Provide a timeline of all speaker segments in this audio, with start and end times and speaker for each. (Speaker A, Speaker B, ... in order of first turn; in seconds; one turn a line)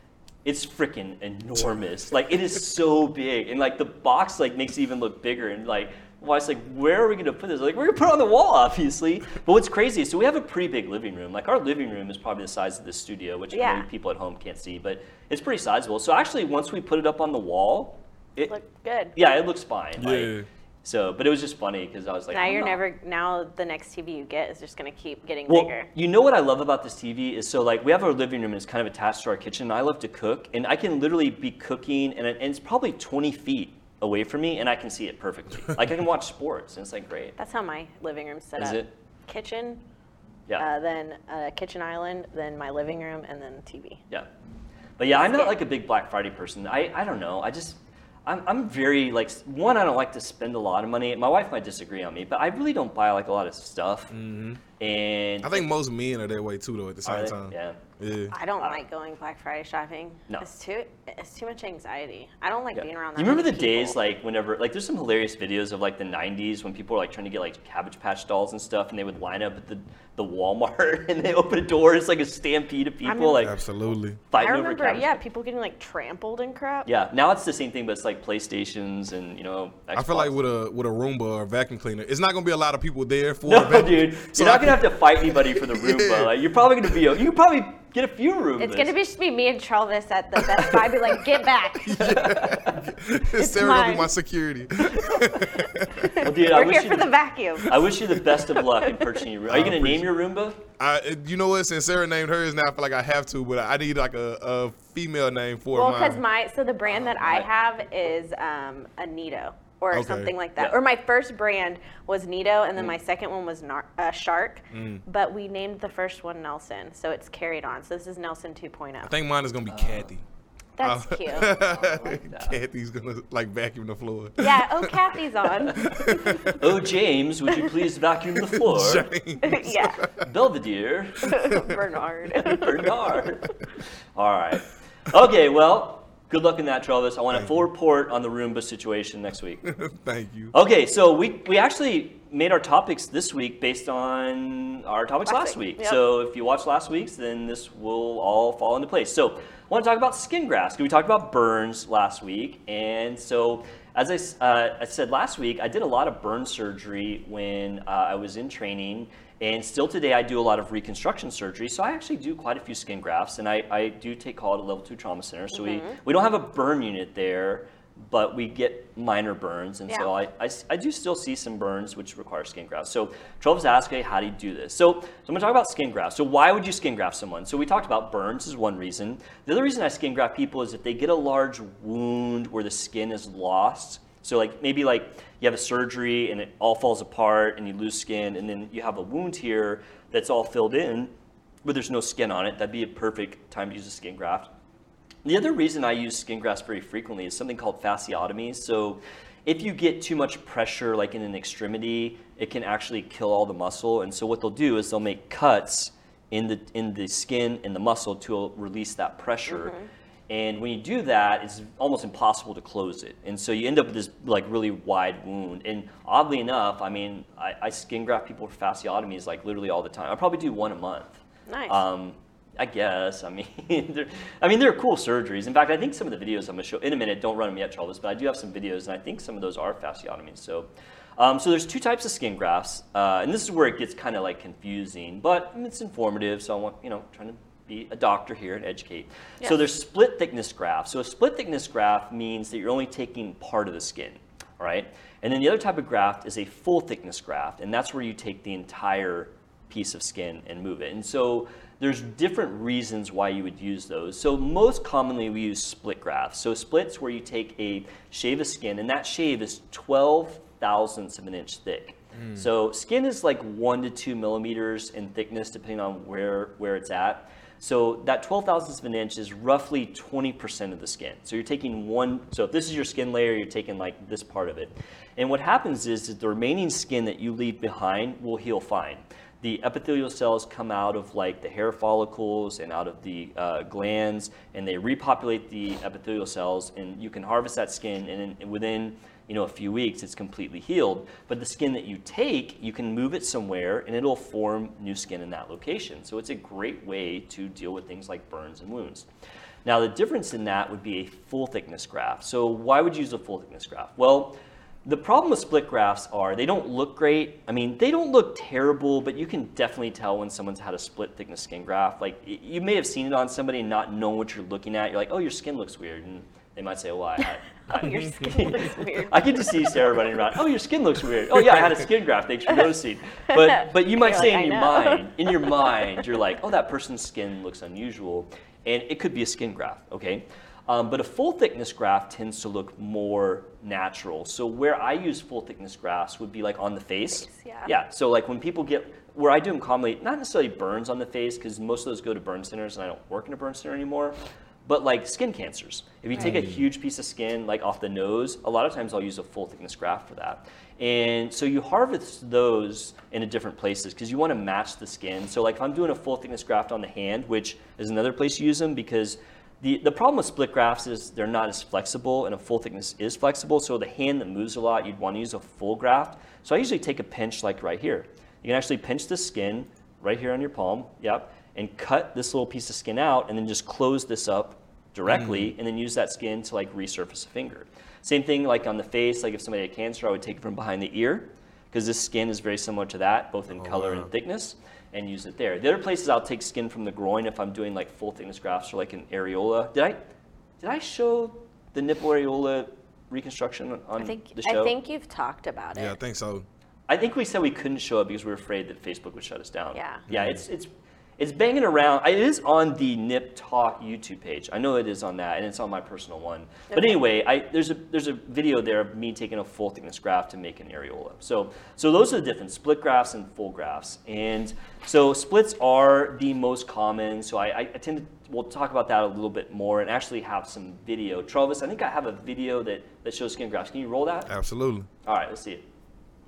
Speaker A: 0.4-18.5
Speaker B: 13.5-13.9
Speaker B: 18.5-19.1
Speaker A: 19.1-22.8
Speaker C: 20.0-20.4
Speaker B: 22.3-25.9
Speaker A: 25.5-37.4
Speaker B: 37.4-39.8
Speaker A: 38.6-38.9
Speaker B: 40.6-44.0
Speaker A: 45.0-54.1
Speaker B: 45.1-45.6
Speaker C: 54.1-54.6
Speaker A: 54.8-55.7
Speaker C: 55.4-58.3
Speaker A: 57.0-57.8
Speaker B: 58.3-64.0
Speaker A: 62.7-73.5
Speaker B: 73.0-73.5
Speaker C: 73.4-74.2
Speaker A: 74.3-75.2
Speaker B: 74.3-76.9
Speaker A: 76.8-80.3
Speaker C: 80.0-86.4
Speaker A: 83.4-88.9
Speaker B: 88.6-92.0
Speaker C: 91.8-96.2
Speaker A: 92.0-93.0
Speaker B: 93.3-94.1
Speaker A: 94.9-95.2
Speaker B: 95.6-99.0
Speaker A: 96.2-100.6
Speaker C: 99.5-100.1
Speaker C: 100.8-106.2
Speaker B: 105.7-119.1
Speaker A: 106.9-107.5
Speaker C: 109.9-110.3
Speaker C: 114.7-115.0
Speaker C: 119.0-120.2
Speaker A: 119.7-120.1
Speaker B: 120.8-121.5
Speaker C: 120.8-125.0
Speaker A: 121.3-122.6
Speaker B: 124.4-126.5
Speaker A: 125.7-129.1
Speaker C: 125.7-126.6
Speaker C: 128.5-130.2
Speaker B: 129.4-130.0
Speaker A: 130.2-131.5
Speaker B: 131.2-132.9
Speaker C: 131.5-131.8
Speaker A: 132.3-133.6
Speaker A: 134.1-139.6
Speaker C: 139.6-140.5
Speaker A: 140.5-191.1
Speaker B: 145.3-146.0
Speaker B: 165.5-166.0
Speaker A: 191.6-194.5
Speaker A: 195.2-209.7
Speaker B: 209.5-209.9
Speaker A: 210.3-299.1
Speaker B: 221.5-221.8
Speaker C: 262.1-262.5
Speaker A: 299.6-390.0
Speaker B: 317.7-319.7
Speaker C: 317.8-318.3
Speaker B: 323.3-325.5
Speaker B: 337.1-337.7
Speaker C: 346.2-346.6
Speaker C: 375.1-375.5
Speaker C: 383.6-384.1
Speaker A: 390.6-394.7
Speaker B: 394.0-395.9
Speaker C: 395.7-396.4
Speaker A: 396.9-424.3
Speaker B: 399.7-400.0
Speaker C: 400.1-400.4
Speaker B: 406.7-407.0
Speaker C: 424.3-424.9
Speaker A: 425.0-425.6